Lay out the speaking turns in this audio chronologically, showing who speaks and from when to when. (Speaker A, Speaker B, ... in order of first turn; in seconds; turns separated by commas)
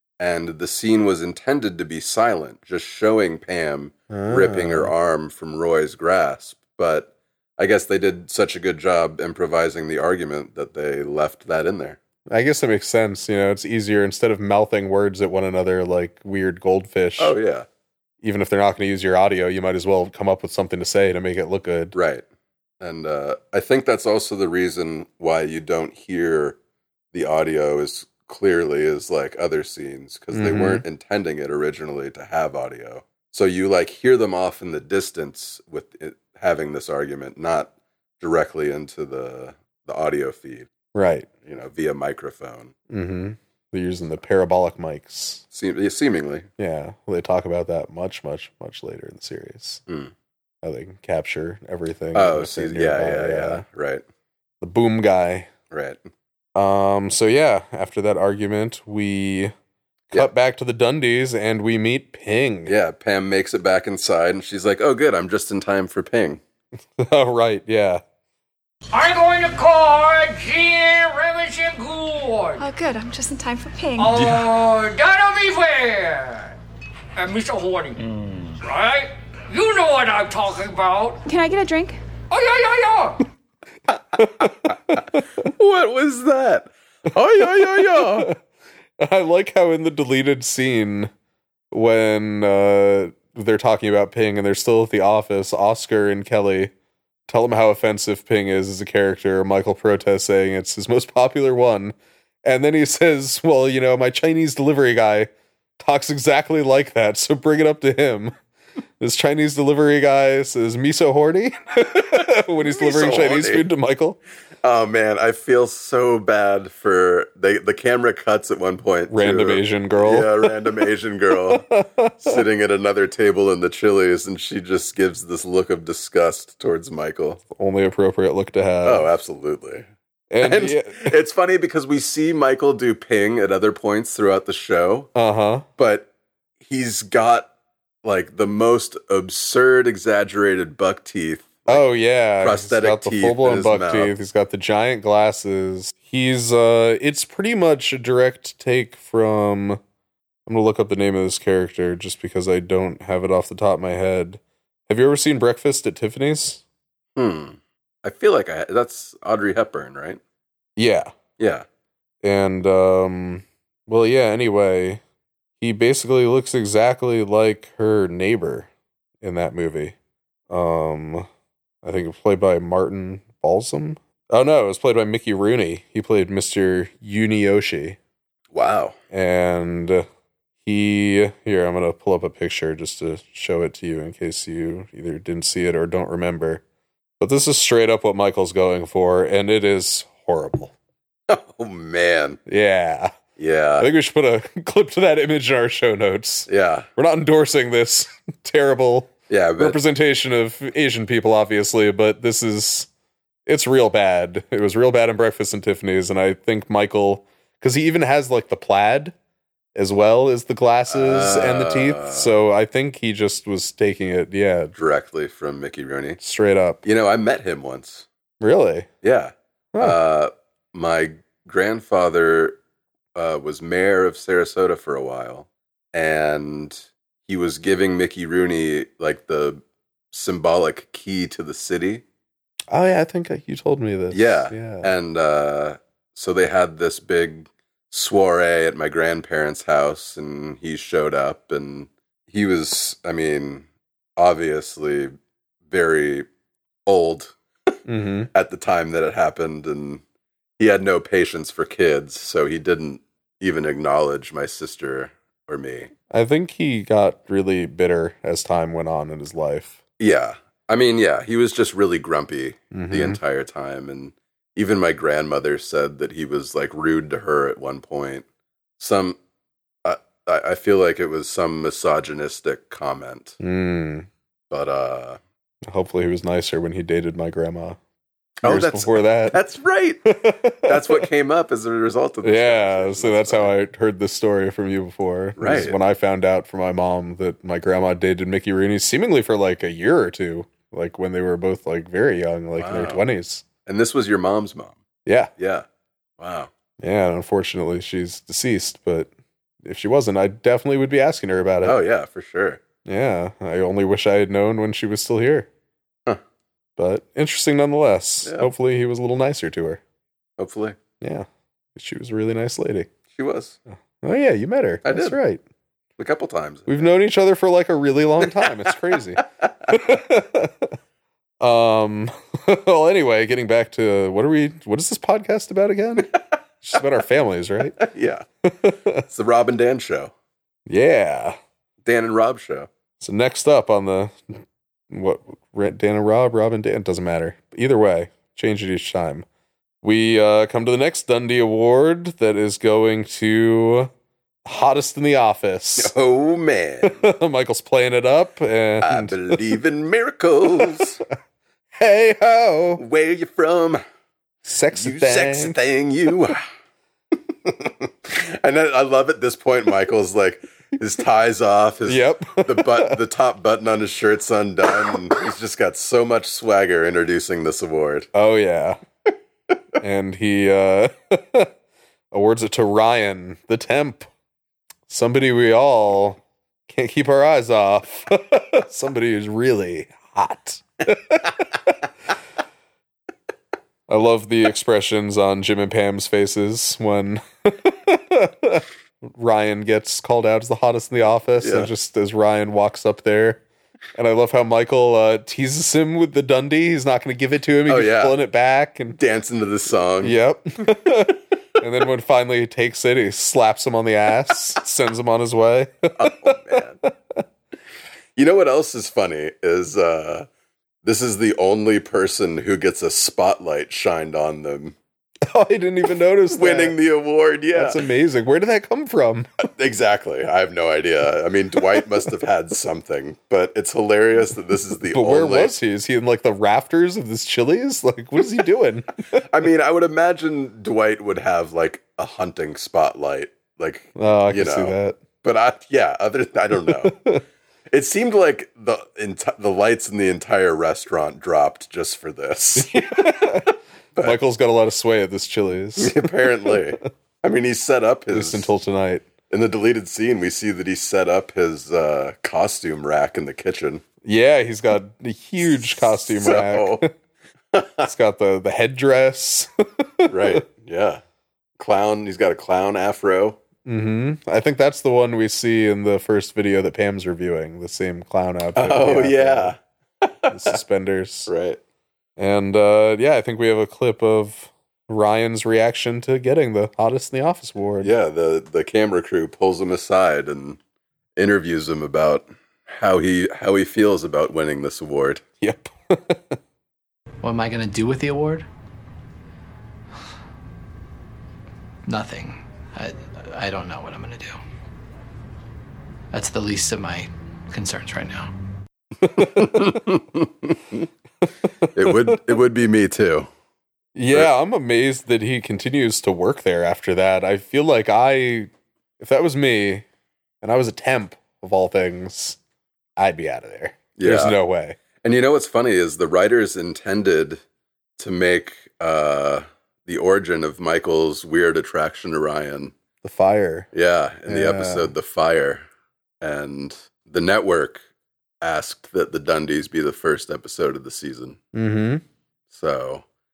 Speaker A: 0.2-12.0, Speaker B: 4.1-4.9, Speaker B: 12.3-17.4, Speaker A: 17.2-17.7, Speaker B: 18.2-21.9, Speaker A: 21.9-22.2, Speaker A: 22.8-26.6, Speaker A: 27.1-40.7, Speaker B: 30.3-30.8, Speaker B: 40.9-41.3, Speaker A: 41.5-42.7, Speaker B: 42.9-45.4, Speaker A: 45.5-46.5, Speaker B: 46.6-49.8, Speaker A: 49.9-50.1, Speaker B: 50.6-53.6, Speaker A: 52.1-54.0, Speaker B: 54.6-55.5, Speaker A: 55.7-56.0, Speaker B: 56.5-59.5, Speaker B: 60.1-62.8, Speaker A: 62.7-66.4, Speaker B: 67.0-68.0, Speaker C: 68.9-72.7, Speaker D: 72.6-74.3, Speaker C: 74.0-76.5, Speaker C: 77.2-78.0, Speaker C: 78.6-81.2, Speaker D: 81.3-82.0, Speaker C: 82.3-83.2, Speaker A: 84.2-88.3, Speaker B: 84.2-85.0, Speaker B: 87.4-88.4, Speaker B: 89.0-91.1, Speaker B: 91.7-96.7, Speaker B: 97.3-108.3, Speaker B: 109.0-114.2, Speaker A: 112.0-113.7, Speaker A: 114.6-121.7, Speaker B: 119.1-120.6, Speaker B: 121.4-122.4, Speaker A: 122.2-127.4, Speaker B: 127.5-129.1, Speaker A: 128.8-129.8, Speaker B: 130.3-131.2, Speaker A: 130.4-135.1, Speaker B: 135.2-135.7, Speaker A: 135.8-136.1, Speaker A: 136.6-137.5, Speaker A: 138.0-141.9, Speaker B: 141.7-149.8, Speaker A: 142.4-144.1, Speaker B: 150.5-156.6, Speaker A: 157.2-160.2, Speaker B: 160.8-161.1, Speaker A: 161.4-161.7, Speaker B: 162.2-165.0, Speaker B: 165.6-168.7, Speaker B: 169.2-169.9, Speaker B: 170.5-171.3, Speaker B: 171.8-178.0, Speaker A: 178.5-179.0, Speaker B: 179.1-180.1, Speaker B: 180.6-186.6, Speaker B: 187.2-190.7, Speaker A: 191.3-192.4, Speaker B: 192.5-193.1, Speaker A: 193.4-193.9, Speaker B: 193.8-202.9, Speaker A: 196.5-196.9, Speaker A: 199.3-199.8, Speaker B: 203.5-209.1, Speaker B: 209.8-214.7, Speaker A: 210.9-212.4, Speaker A: 214.7-216.2, Speaker B: 216.2-216.8, Speaker A: 216.8-218.1, Speaker B: 218.4-218.9, Speaker A: 219.0-222.6, Speaker A: 223.2-232.0, Speaker B: 232.7-234.9, Speaker A: 234.1-243.7, Speaker A: 244.2-245.1, Speaker A: 245.7-246.3, Speaker A: 246.9-247.3, Speaker B: 247.9-248.3, Speaker A: 248.3-250.0, Speaker A: 250.6-255.9, Speaker B: 256.1-259.8, Speaker A: 260.0-268.2, Speaker B: 262.7-263.2, Speaker A: 268.8-269.2, Speaker A: 269.8-273.4, Speaker B: 273.4-274.1, Speaker A: 274.5-275.2, Speaker B: 275.7-277.8, Speaker B: 278.4-279.4, Speaker A: 278.4-283.5, Speaker B: 280.1-281.1, Speaker B: 282.2-293.4, Speaker A: 285.4-285.8, Speaker A: 292.6-293.0, Speaker A: 293.7-294.8, Speaker B: 295.1-295.3, Speaker A: 295.4-295.7, Speaker A: 296.2-296.5, Speaker B: 296.8-299.1, Speaker B: 299.6-301.8, Speaker A: 301.6-302.6, Speaker B: 302.9-305.5, Speaker B: 306.8-309.8, Speaker A: 310.4-310.8, Speaker B: 311.0-312.9, Speaker A: 313.1-313.6, Speaker B: 314.0-315.4, Speaker A: 314.9-315.2, Speaker A: 316.0-316.9, Speaker B: 316.7-320.7, Speaker A: 318.2-319.5, Speaker B: 321.4-327.8, Speaker A: 327.8-328.2, Speaker B: 328.5-329.0, Speaker A: 329.1-330.1, Speaker B: 330.7-331.4, Speaker A: 331.8-332.7, Speaker B: 333.0-334.1, Speaker B: 334.9-339.2, Speaker B: 339.8-343.9, Speaker B: 344.4-345.9, Speaker A: 345.8-347.1, Speaker B: 346.9-349.4, Speaker A: 348.8-351.0, Speaker B: 351.8-352.8, Speaker A: 352.8-353.8, Speaker B: 354.4-355.6, Speaker A: 354.7-356.4, Speaker A: 357.3-368.1, Speaker B: 361.9-363.0, Speaker B: 368.1-368.8, Speaker B: 369.8-371.5, Speaker B: 372.1-374.1, Speaker B: 374.9-381.8, Speaker B: 383.9-393.4, Speaker A: 391.4-391.7, Speaker B: 393.9-399.0, Speaker A: 397.7-398.2, Speaker A: 399.0-400.2, Speaker B: 400.0-406.4, Speaker A: 406.0-406.8, Speaker A: 408.2-410.3, Speaker A: 410.8-414.8, Speaker B: 415.3-416.8, Speaker A: 416.3-417.8, Speaker B: 417.5-419.3, Speaker A: 419.4-425.6, Speaker B: 424.9-428.9, Speaker A: 429.1-436.9, Speaker B: 434.0-435.0, Speaker B: 436.7-437.2, Speaker A: 437.7-443.1, Speaker B: 442.6-446.6, Speaker A: 445.8-448.5, Speaker B: 448.1-449.1, Speaker A: 449.3-453.8, Speaker B: 454.0-456.9, Speaker A: 455.5-456.8, Speaker A: 457.5-457.9, Speaker B: 457.8-460.4, Speaker A: 460.1-461.0, Speaker A: 461.6-463.4, Speaker B: 463.6-469.6, Speaker A: 468.6-470.6, Speaker B: 470.3-471.3, Speaker A: 471.3-471.6, Speaker B: 472.2-477.9, Speaker A: 477.8-480.6, Speaker A: 481.2-485.2, Speaker B: 485.4-486.4, Speaker E: 487.2-488.5, Speaker E: 491.9-494.4, Speaker E: 496.1-498.3, Speaker B: 499.1-499.8, Speaker A: 499.1-500.9, Speaker B: 501.6-502.0, Speaker A: 501.7-503.3, Speaker B: 503.9-508.5, Speaker B: 509.0-509.9, Speaker B: 510.4-512.4, Speaker B: 513.0-514.8, Speaker A: 514.0-514.4, Speaker A: 515.0-517.4, Speaker A: 518.0-522.7, Speaker B: 523.0-523.7, Speaker A: 523.7-525.6, Speaker B: 524.3-524.9, Speaker A: 526.2-527.8, Speaker A: 528.4-531.4, Speaker B: 531.5-532.0, Speaker A: 532.5-533.0